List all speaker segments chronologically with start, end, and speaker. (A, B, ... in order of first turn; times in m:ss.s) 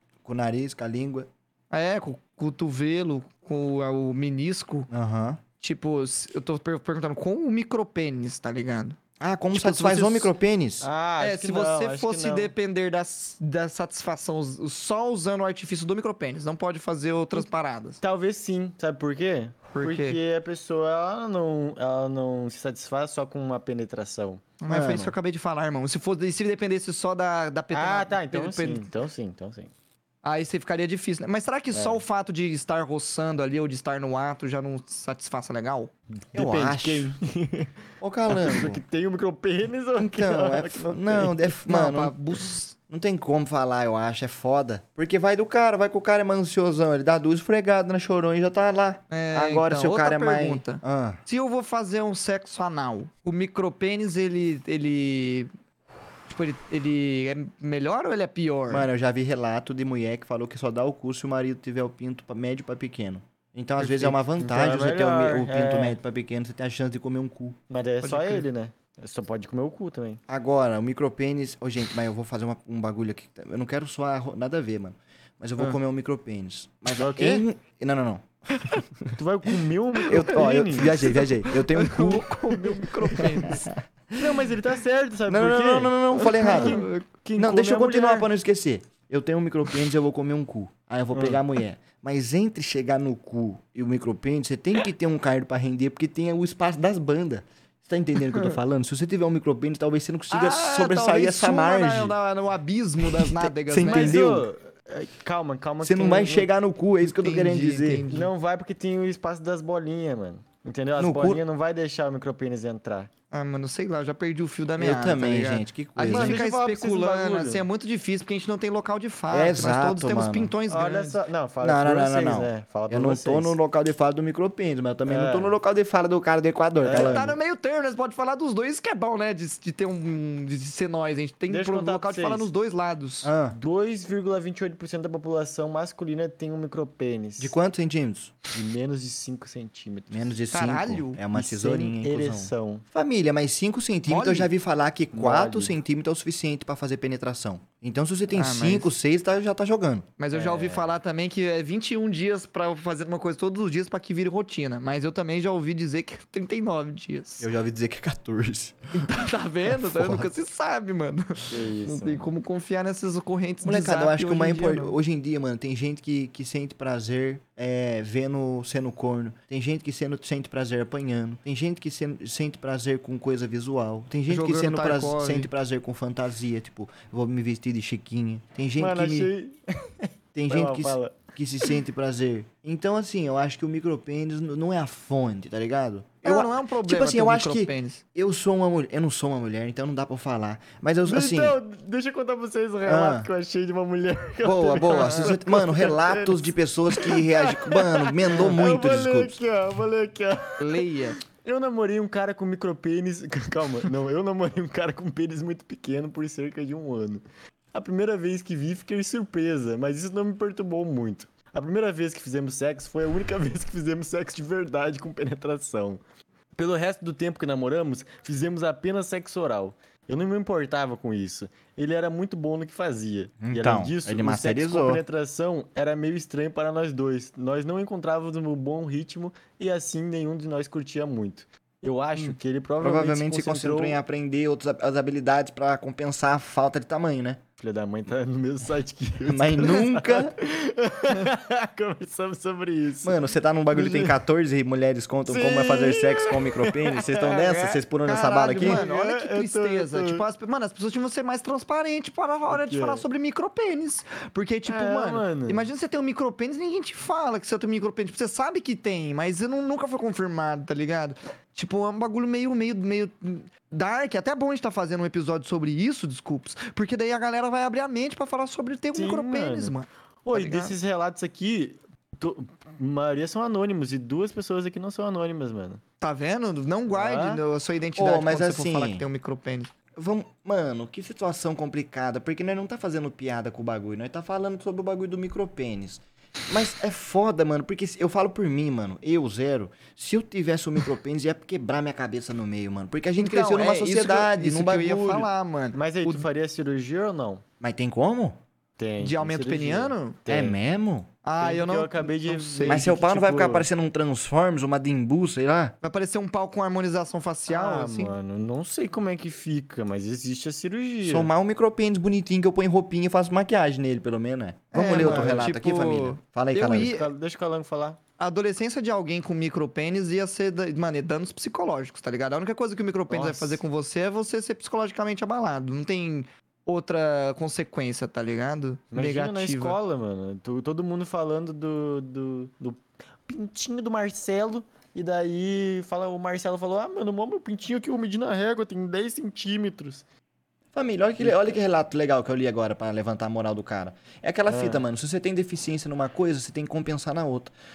0:00.2-0:01.3 A
0:01.7-0:04.9 B
0:04.9-0:05.4 A
0:05.6-0:09.0 B
0:09.2-0:10.9 A
0:09.5-0:10.3 B
0:10.8-0:12.5 C
0:11.2-0:18.0 B
0:18.0-0:24.4 C
0:19.7-0:20.2 B
0:24.6-0:28.9 B
0:24.7-0:25.1 A
0:27.7-0:29.7 C
0:30.2-0:35.9 B
0:31.7-0:32.0 C
0:36.2-0:37.7 C
0:36.3-0:37.2 A
0:38.0-0:38.8 A
0:38.3-0:41.5 C
0:40.0-0:42.2 A
0:41.7-0:42.8 B
0:42.9-0:51.2 A
0:49.1-0:55.5 B
0:56.3-0:58.9 B
0:58.7-1:07.6 A
1:03.8-1:06.0 C
1:07.7-1:10.2 C
1:08.0-1:08.4 B
1:10.3-1:19.1 A
1:17.0-1:17.4 C
1:19.1-1:21.0 C
1:20.1-1:22.6 A
1:21.0-1:23.7 B
1:23.1-1:24.2 A
1:24.2-1:28.3 C
1:25.3-1:42.1 A
1:26.2-1:27.1 B
1:31.1-1:31.4 C
1:40.3-1:44.2 B
1:43.2-1:44.5 A
1:43.8-1:46.5 C
1:45.8-1:48.0 A
1:47.0-1:48.3 B
1:48.1-1:53.1 C
1:51.0-1:51.4 A
1:53.3-2:01.2 B
1:54.8-1:56.4 A
1:56.1-1:57.7 C
1:59.3-2:00.5 A
2:00.7-2:03.6 C
2:01.6-2:07.3 A
2:05.0-2:05.6 C
2:06.8-2:07.3 C
2:06.9-2:13.3 B
2:11.5-2:12.5 C
2:13.2-2:13.6 A
2:13.5-2:17.6 C
2:17.4-2:18.4 A
2:18.5-2:20.4 C
2:20.1-2:30.1 A
2:20.5-2:21.2 B
2:21.3-2:22.8 C
2:24.1-2:24.5 B
2:25.1-2:25.8 C
2:28.3-2:28.9 B
2:30.2-2:37.5 B
2:30.3-2:30.9 C
2:37.4-2:38.8 A
2:38.9-2:45.0 B
2:39.7-2:40.3 A
2:41.5-2:42.3 C
2:43.6-2:59.3 A
2:54.3-2:55.5 B
2:58.8-3:01.2 C
3:00.4-3:11.6 A
3:06.2-3:08.0 B
3:11.0-3:36.0 C
3:12.8-3:13.3 A
3:14.4-3:19.4 A
3:14.9-3:15.3 B
3:20.6-3:21.2 B
3:36.6-3:54.0 C
3:43.4-3:45.0 A
3:52.8-3:57.4 A
3:57.6-4:03.2 C
3:59.3-4:00.3 A
4:03.0-4:08.8 A
4:03.7-4:04.2 C
4:05.3-4:07.4 C
4:07.4-4:30.7 B
4:08.5-4:10.2 C
4:12.5-4:13.0 C
4:14.7-4:15.7 C
4:28.9-4:35.8 C
4:36.0-4:39.7 B
4:36.9-4:37.4 C
4:38.0-4:39.0 A
4:39.9-4:55.3 A
4:53.2-4:56.2 B
4:55.7-4:57.4 C
4:57.6-4:58.4 A
4:58.8-5:00.6 C
4:59.0-5:00.2 B
5:00.3-5:01.1 A
5:01.2-5:02.9 B
5:01.4-5:03.7 C
5:02.6-5:05.7 A
5:05.8-5:08.1 B
5:07.5-5:11.3 C
5:11.0-5:16.9 A
5:14.7-5:17.1 B
5:14.8-5:15.5 C
5:16.7-5:18.0 C
5:18.2-5:29.8 B
5:23.1-5:23.6 C
5:28.9-5:40.0 C
5:40.7-5:47.5 A
5:41.2-5:41.6 C
5:44.5-5:44.9 C